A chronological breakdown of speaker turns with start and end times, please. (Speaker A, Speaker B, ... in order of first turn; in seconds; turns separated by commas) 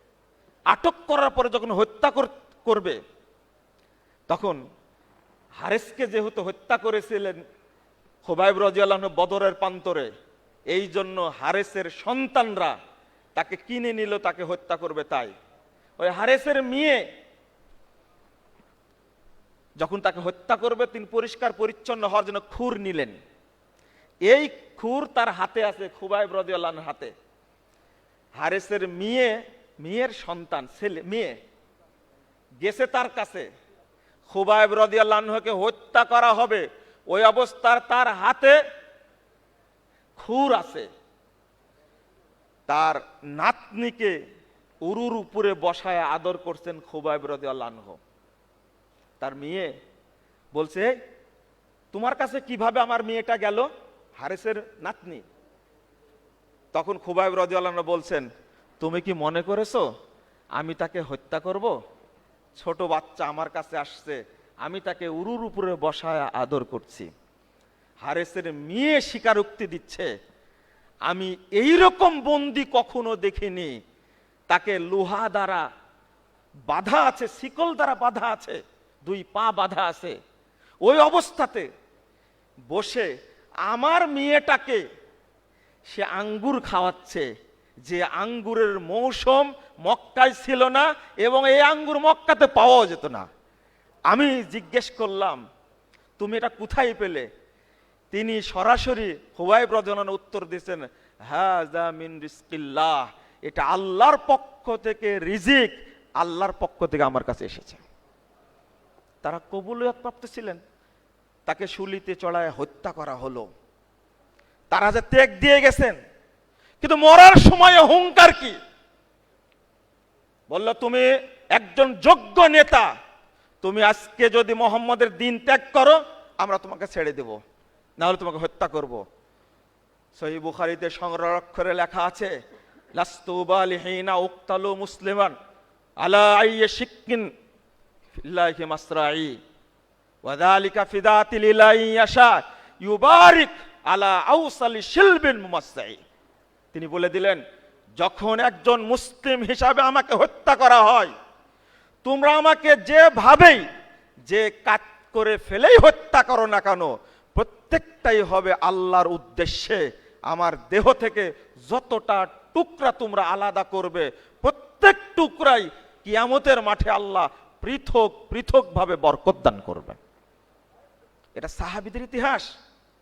Speaker A: 0.7-3.0, Speaker A: 4.3-4.6, Speaker A: 5.6-7.4, Speaker A: 8.2-10.1, Speaker A: 10.7-12.7, Speaker A: 13.3-15.3, Speaker A: 16.0-17.0, Speaker A: 19.8-23.2, Speaker A: 24.2-27.1, Speaker A: 28.4-31.3, Speaker A: 32.6-33.5, Speaker A: 34.3-38.6, Speaker A: 40.2-40.9, Speaker A: 42.7-44.1, Speaker A: 44.8-48.0, Speaker A: 49.2-49.7, Speaker A: 50.5-50.9, Speaker A: 51.9-55.2, Speaker A: 56.7-58.3, Speaker A: 58.8-59.8, Speaker A: 60.5-61.7, Speaker A: 62.5-67.1, Speaker A: 68.0-70.1, Speaker A: 71.0-73.7, Speaker A: 74.5-75.6, Speaker A: 76.7-80.2, Speaker A: 80.8-81.7, Speaker A: 82.7-83.1, Speaker A: 83.7-84.8, Speaker A: 85.9-87.3, Speaker A: 87.8-93.2, Speaker A: 94.1-95.4, Speaker A: 96.2-97.2, Speaker A: 98.1-107.8, Speaker A: 109.2-110.6, Speaker A: 111.5-113.5, Speaker A: 114.7-116.0, Speaker A: 116.8-118.6, Speaker A: 120.5-122.9, Speaker A: 123.6-127.4, Speaker A: 128.0-129.0, Speaker A: 130.2-132.3, Speaker A: 132.9-135.3, Speaker A: 136.0-137.3, Speaker A: 138.2-139.3, Speaker A: 140.2-146.0, Speaker A: 146.7-147.4, Speaker A: 148.0-151.1, Speaker A: 152.0-153.6, Speaker A: 154.3-170.0, Speaker A: 171.3-172.5